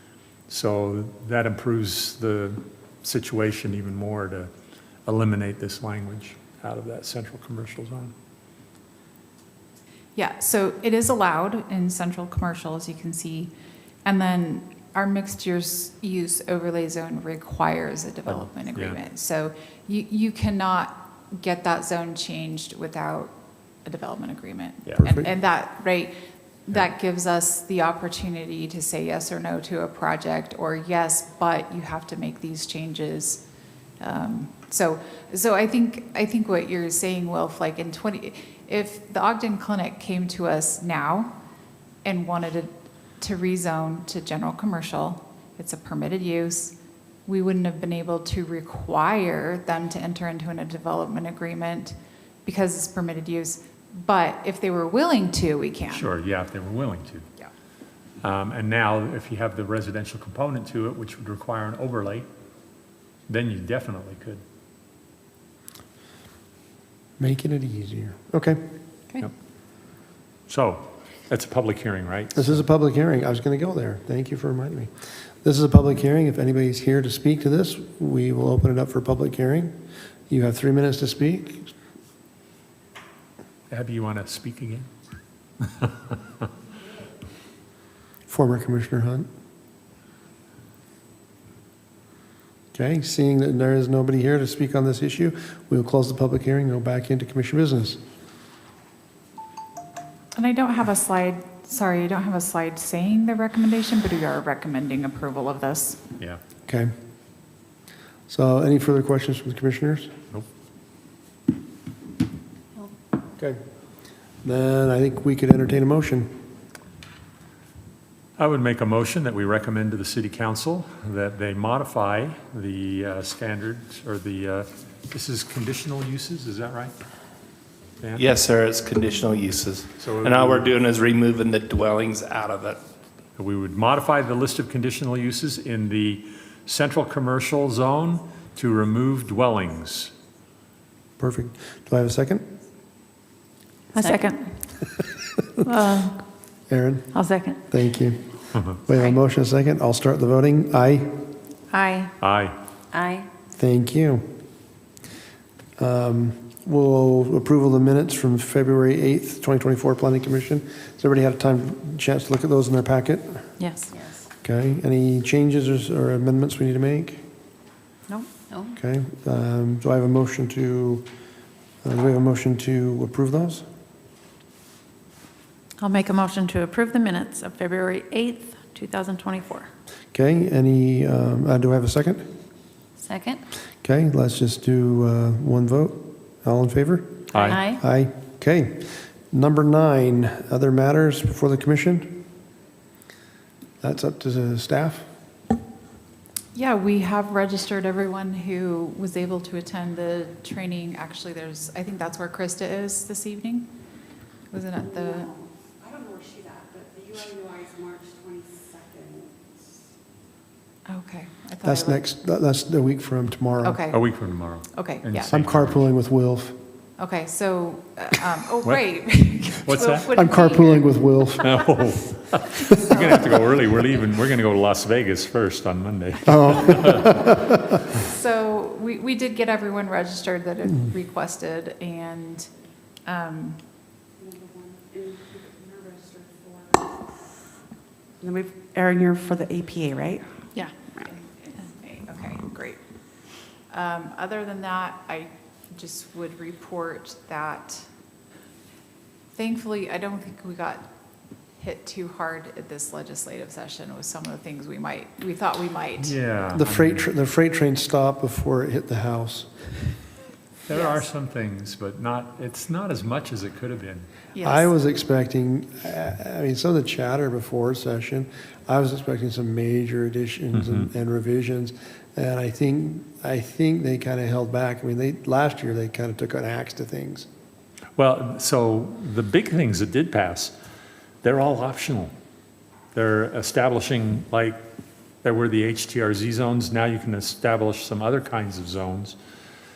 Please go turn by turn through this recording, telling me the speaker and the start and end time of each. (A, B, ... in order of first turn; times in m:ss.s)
0:00.5-0:04.5 A
0:05.1-0:08.1 A
0:10.2-0:13.5 B
0:14.0-0:23.3 B
0:18.3-0:19.0 A
0:23.8-0:26.1 B
0:24.9-0:25.2 A
0:26.7-0:33.4 B
0:34.0-0:41.3 B
0:42.0-0:46.8 B
0:47.3-0:56.1 B
0:55.9-0:57.3 A
0:58.2-1:02.3 A
1:03.3-1:04.4 A
1:07.2-1:08.6 C
1:10.5-1:12.6 A
1:12.4-1:14.9 C
1:15.4-1:19.7 C
1:20.3-1:21.7 C
1:23.7-1:24.9 A
1:28.3-1:29.3 C
1:32.7-1:38.0 C
1:40.4-1:46.0 B
1:48.3-1:50.1 C
1:54.4-1:56.3 C
1:58.4-2:06.9 A
2:08.0-2:08.3 A
2:08.2-2:12.8 D
2:10.0-2:10.7 A
2:13.4-2:20.1 A
2:21.2-2:22.4 C
2:24.0-2:24.6 E
2:25.6-2:26.2 E
2:26.7-2:27.1 C
2:27.1-2:27.6 E
2:27.7-2:31.1 C
2:31.7-2:32.1 E
2:32.2-2:32.6 A
2:32.9-2:33.3 E
2:33.6-2:34.2 C
2:35.8-2:43.5 C
2:43.6-2:43.9 E
2:44.4-2:47.2 C
2:48.1-2:48.8 E
2:48.8-2:51.0 C
2:51.8-2:53.6 C
2:55.8-2:59.7 E
3:00.1-3:02.2 C
3:03.0-3:03.4 E
3:03.8-3:12.2 C
3:07.3-3:07.6 A
3:07.4-3:07.8 E
3:13.8-3:15.1 C
3:16.5-3:23.7 B
3:24.5-3:25.3 B
3:27.4-3:29.1 F
3:30.9-3:32.0 B
3:31.6-3:33.8 C
3:33.6-3:34.0 B
3:33.9-3:35.9 A
3:34.7-3:35.3 B
3:35.3-3:36.6 C
3:37.0-3:41.2 B
3:39.5-3:40.1 A
3:40.1-3:41.6 C
3:41.4-3:47.1 A
3:46.3-3:47.6 C
3:47.9-3:52.5 B
3:53.1-3:53.6 B
3:58.2-4:00.2 F
4:01.0-4:02.8 B
4:03.7-4:07.9 B
4:09.3-4:10.9 B
4:11.6-4:16.2 B
4:16.0-4:17.1 A
4:16.5-4:19.5 C
4:20.7-4:24.1 A
4:20.7-4:21.0 B
4:24.4-4:24.7 B
4:24.4-4:37.3 C
4:30.5-4:30.9 A
4:38.0-4:40.5 A
4:41.2-4:42.1 A
4:42.9-4:44.6 A
4:45.2-4:49.2 A